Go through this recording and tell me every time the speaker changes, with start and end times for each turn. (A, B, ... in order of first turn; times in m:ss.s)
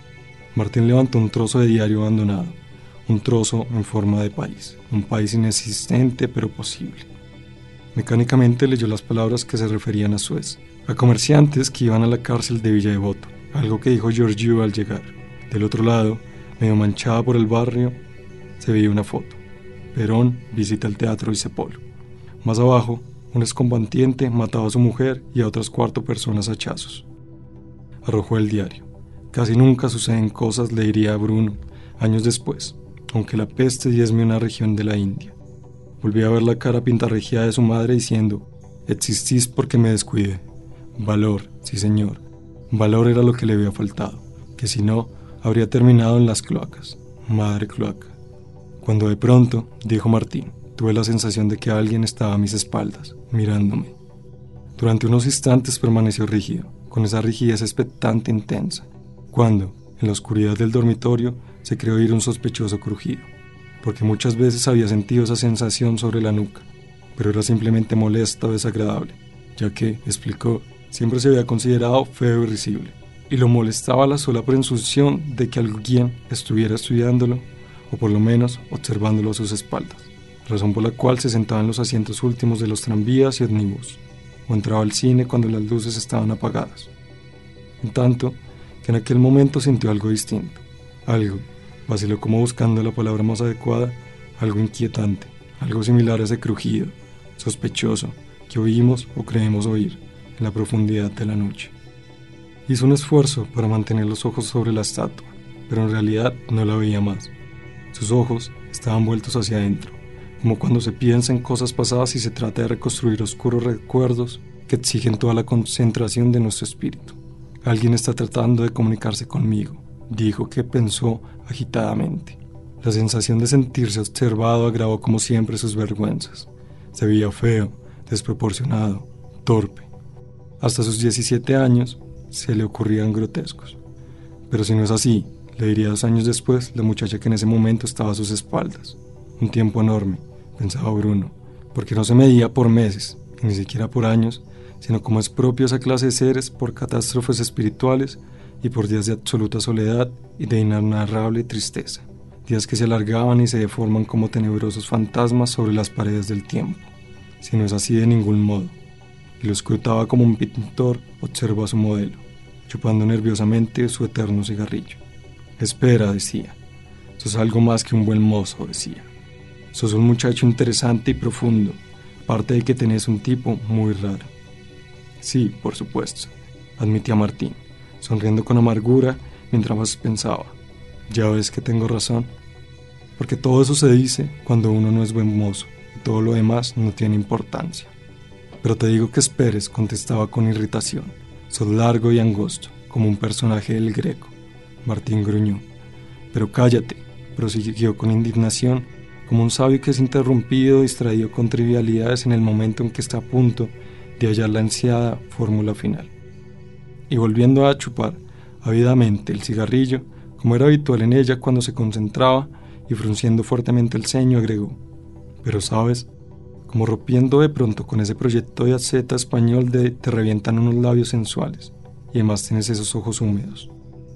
0:00.5-0:07.1 A
0:07.9-0:18.0 A
0:18.6-0:19.4 A
0:19.9-0:21.8 A
0:22.4-0:27.1 A
0:28.0-0:35.4 A
0:36.0-0:40.4 A
0:41.0-0:48.1 A
0:48.8-0:54.0 A
0:54.8-1:03.3 A
1:03.8-1:26.9 A
1:27.8-1:41.7 A
1:42.7-1:47.3 A
1:47.9-2:09.9 A
2:10.6-2:13.8 A
2:14.5-2:38.8 A
2:39.4-2:45.0 A
2:45.6-2:46.6 A
2:47.2-2:49.1 A
2:49.7-2:54.3 A
2:55.2-3:00.6 A
3:01.1-3:02.3 A
3:03.2-3:07.9 A
3:08.6-3:15.7 A
3:16.3-3:26.1 A
3:27.1-3:34.8 A
3:35.4-3:36.1 A
3:36.7-3:43.7 A